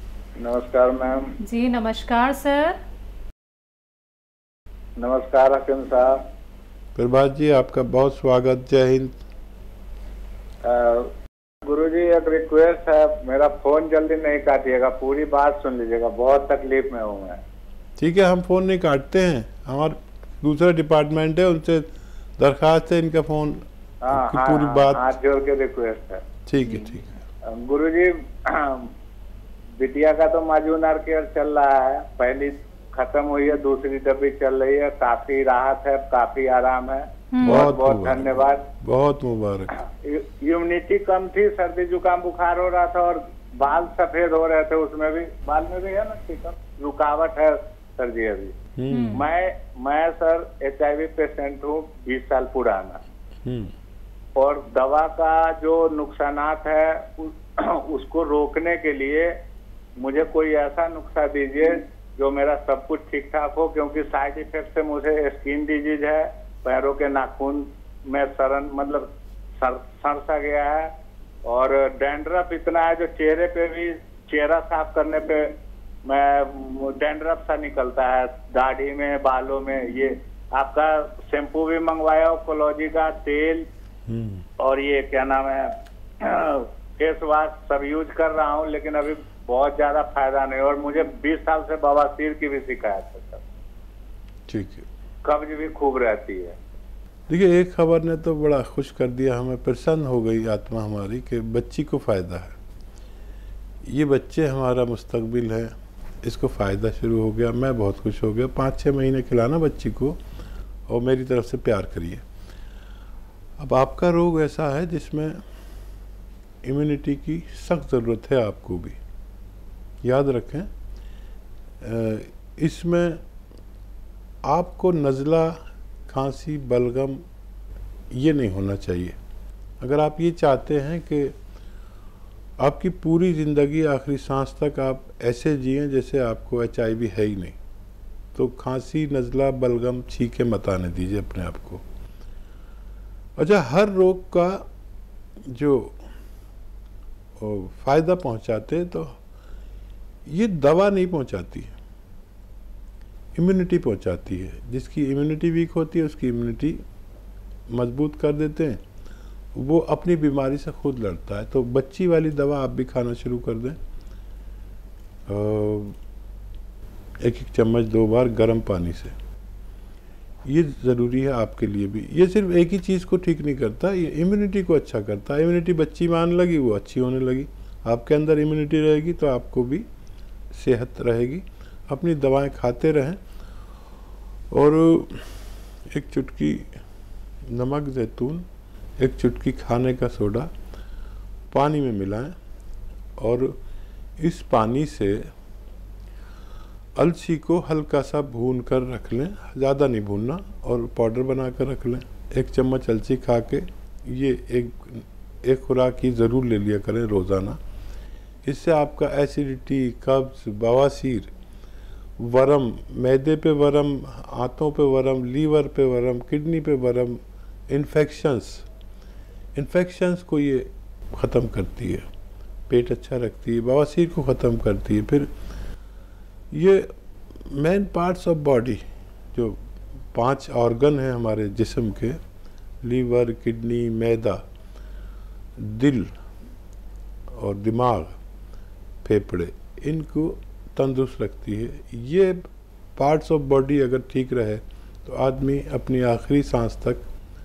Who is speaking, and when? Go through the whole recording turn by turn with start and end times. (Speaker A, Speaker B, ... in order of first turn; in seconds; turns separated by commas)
Speaker A: 0.4-1.3, Speaker B: 1.4-2.8, Speaker A: 5.0-6.2, Speaker C: 7.0-9.1, Speaker A: 10.6-11.1, Speaker A: 11.6-17.4, Speaker C: 18.0-21.9, Speaker C: 22.4-25.1, Speaker A: 24.0-26.2, Speaker C: 26.5-27.1, Speaker B: 26.6-27.0, Speaker A: 27.5-28.9, Speaker A: 29.8-38.7, Speaker B: 37.3-37.7, Speaker C: 37.4-39.7, Speaker A: 39.8-48.5, Speaker C: 48.8-49.2, Speaker B: 48.9-49.3, Speaker A: 49.1-53.0, Speaker C: 53.5-53.7, Speaker A: 54.4-59.4, Speaker A: 60.0-70.9, Speaker A: 71.4-75.5, Speaker A: 76.0-83.6, Speaker C: 84.1-84.4, Speaker A: 84.6-93.4, Speaker C: 94.5-94.8, Speaker A: 95.2-96.5, Speaker C: 97.3-102.5, Speaker C: 103.8-110.2, Speaker C: 110.9-112.2, Speaker C: 113.6-115.4, Speaker C: 116.6-119.0, Speaker C: 120.0-120.7, Speaker C: 121.8-123.2, Speaker C: 124.4-127.2, Speaker C: 128.1-129.2, Speaker C: 129.8-131.3, Speaker C: 132.6-137.6, Speaker C: 138.3-141.8, Speaker C: 143.4-144.6, Speaker C: 145.5-146.0, Speaker C: 147.4-149.2, Speaker C: 150.3-151.7, Speaker C: 153.3-156.8, Speaker C: 157.7-158.8, Speaker C: 159.6-163.8, Speaker C: 165.3-165.9, Speaker C: 167.2-169.1, Speaker C: 170.4-179.8, Speaker C: 180.5-183.2, Speaker C: 184.5-185.4, Speaker C: 185.9-186.7, Speaker C: 187.5-188.4, Speaker C: 189.0-190.5, Speaker C: 191.5-192.3, Speaker C: 193.2-193.6, Speaker C: 194.2-195.3, Speaker C: 196.9-207.6, Speaker C: 208.4-211.3, Speaker C: 212.2-218.7, Speaker C: 219.5-222.1, Speaker C: 222.7-225.3, Speaker C: 226.5-226.9, Speaker C: 227.4-229.6, Speaker C: 230.1-232.2, Speaker C: 232.8-234.4, Speaker C: 235.6-236.1, Speaker C: 237.3-238.2, Speaker C: 239.0-247.0